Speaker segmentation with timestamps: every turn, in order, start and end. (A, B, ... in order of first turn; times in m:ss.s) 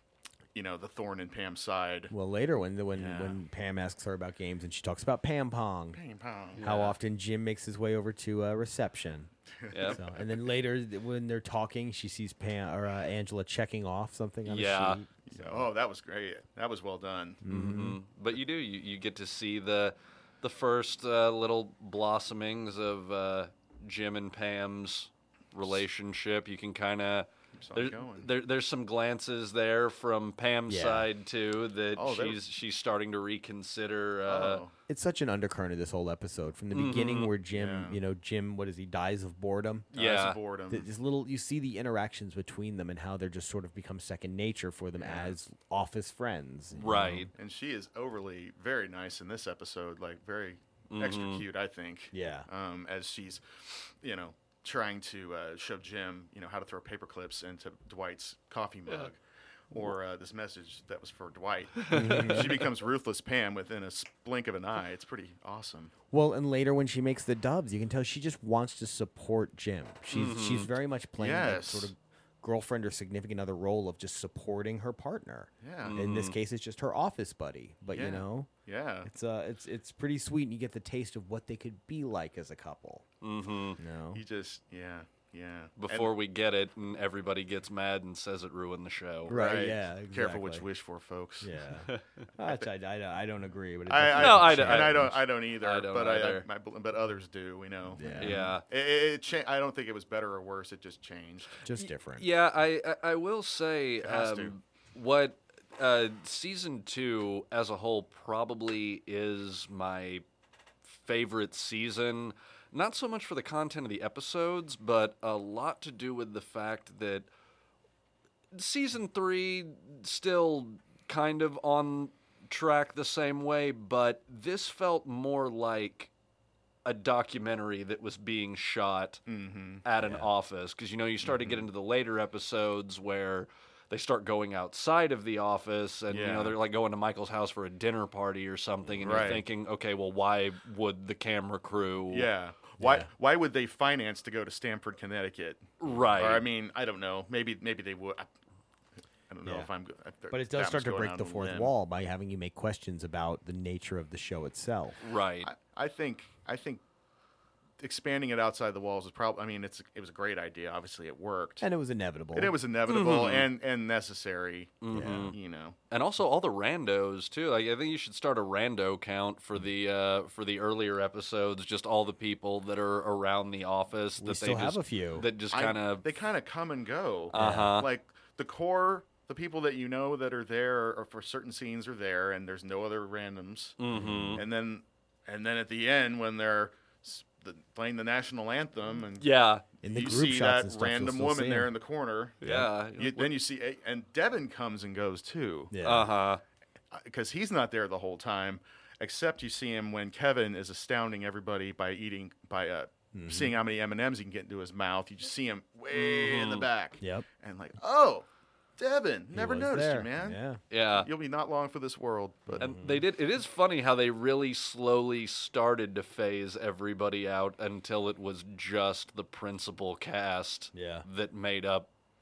0:00.6-0:02.1 A
0:02.1-0:06.0 B
0:02.9-0:03.4 A
0:05.9-0:06.6 A
0:06.6-0:07.0 C
0:06.6-0:09.3 B
0:09.6-0:10.3 A
0:09.7-0:10.0 C
0:09.9-0:15.7 B
0:14.5-0:15.0 C
0:15.3-0:17.4 A
0:17.4-0:18.0 B
0:17.5-0:34.6 C
0:27.6-0:28.3 A
0:30.7-0:31.1 B
0:32.0-0:32.4 A
0:34.3-0:34.7 A
0:34.9-0:39.9 B
0:36.7-0:37.3 C
0:37.5-0:38.0 A
0:39.9-0:40.9 A
0:39.9-0:40.4 C
0:40.7-0:47.3 B
0:45.0-0:45.4 A
0:46.8-0:47.3 C
0:47.4-0:59.2 A
0:50.9-0:51.4 C
0:52.1-0:52.5 B
0:59.7-1:05.9 A
1:01.8-1:02.4 C
1:01.9-1:02.6 B
1:06.1-1:18.5 B
1:10.1-1:10.7 C
1:11.2-1:11.9 A
1:15.6-1:16.0 A
1:15.8-1:16.4 C
1:17.9-1:19.1 A
1:19.0-1:23.0 B
1:23.2-1:23.8 C
1:23.8-1:24.2 B
1:24.1-1:26.1 A
1:25.8-1:29.4 C
1:29.3-1:30.6 B
1:29.3-1:31.5 A
1:31.4-1:35.2 B
1:32.4-1:32.7 A
1:33.9-1:41.6 A
1:34.2-1:36.5 C
1:37.9-1:38.5 B
1:38.2-1:38.6 C
1:41.6-1:42.3 B
1:41.8-1:50.2 C
1:44.0-1:44.5 A
1:50.8-1:57.3 C
1:58.5-2:06.1 C
2:06.8-2:09.2 C
2:09.3-2:09.8 A
2:09.8-2:22.3 C
2:10.0-2:10.3 B
2:16.1-2:16.6 A
2:19.0-2:19.4 A
2:22.1-2:28.3 A
2:22.8-2:23.1 B
2:25.8-2:26.4 C
2:29.3-2:31.7 A
2:30.3-2:35.0 B
2:35.0-2:35.5 C
2:35.4-2:36.8 A
2:37.8-2:41.6 A
2:41.6-2:42.6 B
2:42.3-2:45.8 A
2:42.9-2:43.5 C
2:44.8-2:45.4 C
2:44.9-2:45.3 B
2:45.9-2:56.0 C
2:54.2-2:55.3 B
2:55.5-3:03.8 A
2:57.3-2:57.9 C
2:57.4-2:57.8 B
3:03.8-3:04.4 C
3:03.9-3:04.4 B
3:04.4-3:15.7 A
3:09.2-3:09.6 C
3:09.8-3:11.7 B
3:12.4-3:13.3 C
3:15.7-3:16.1 B
3:15.8-3:16.4 C
3:16.9-3:28.3 A
3:23.1-3:23.6 B
3:25.9-3:26.7 C
3:27.0-3:27.3 B
3:28.8-3:30.4 A
3:29.3-3:30.6 B
3:30.7-3:31.1 C
3:31.0-3:32.7 A
3:32.5-3:33.0 B
3:32.6-3:41.9 C
3:40.7-3:41.1 B